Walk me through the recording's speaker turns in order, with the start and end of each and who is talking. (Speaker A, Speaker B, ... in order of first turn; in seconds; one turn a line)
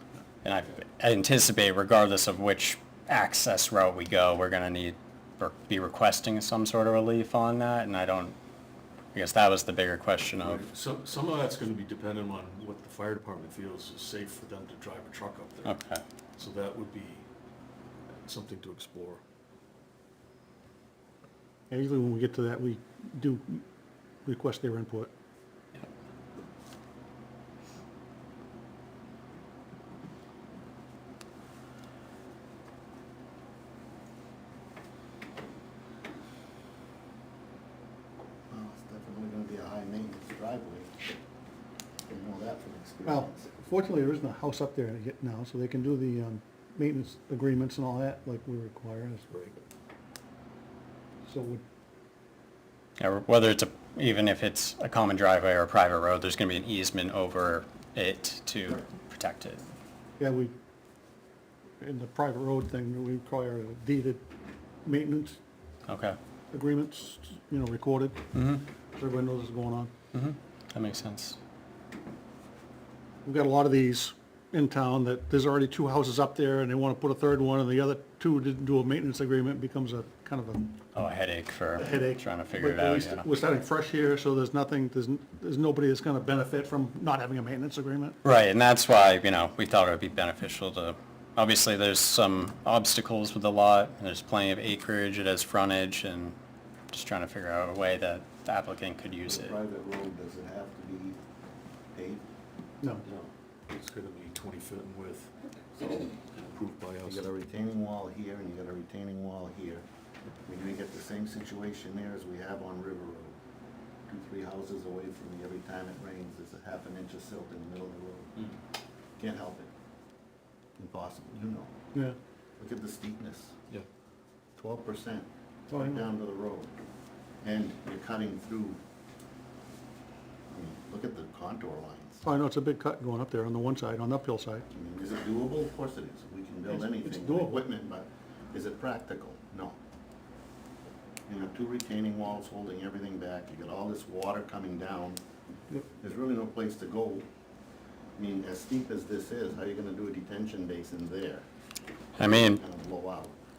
Speaker A: 0.4-8.3
Speaker A: 9.1-10.6
Speaker B: 10.4-15.8
Speaker A: 15.6-16.0
Speaker B: 16.4-17.3
Speaker B: 18.2-19.2
Speaker C: 21.7-23.6
Speaker C: 24.2-25.1
Speaker D: 38.5-41.1
Speaker D: 42.1-43.5
Speaker C: 43.0-49.6
Speaker C: 51.2-51.6
Speaker A: 53.0-59.6
Speaker C: 60.2-60.5
Speaker C: 61.8-64.2
Speaker C: 64.8-65.4
Speaker A: 65.9-66.2
Speaker C: 66.5-68.2
Speaker A: 68.3-68.7
Speaker C: 68.9-69.9
Speaker A: 70.1-71.4
Speaker C: 73.2-80.7
Speaker A: 80.9-83.2
Speaker C: 81.8-88.2
Speaker A: 88.2-96.3
Speaker A: 96.9-99.6
Speaker D: 99.2-101.2
Speaker D: 101.9-102.2
Speaker D: 103.0-103.3
Speaker B: 103.7-105.3
Speaker B: 105.8-107.3
Speaker D: 107.0-109.8
Speaker D: 110.5-113.3
Speaker D: 114.1-118.5
Speaker D: 119.2-119.7
Speaker D: 120.8-121.7
Speaker D: 122.6-123.5
Speaker D: 124.6-126.8
Speaker C: 125.7-126.0
Speaker D: 127.4-128.8
Speaker D: 130.5-132.2
Speaker C: 132.2-134.7
Speaker D: 134.7-139.8
Speaker C: 136.7-137.6
Speaker D: 141.3-145.2
Speaker D: 146.0-147.3
Speaker D: 148.2-151.4
Speaker D: 152.2-153.3
Speaker A: 152.2-152.6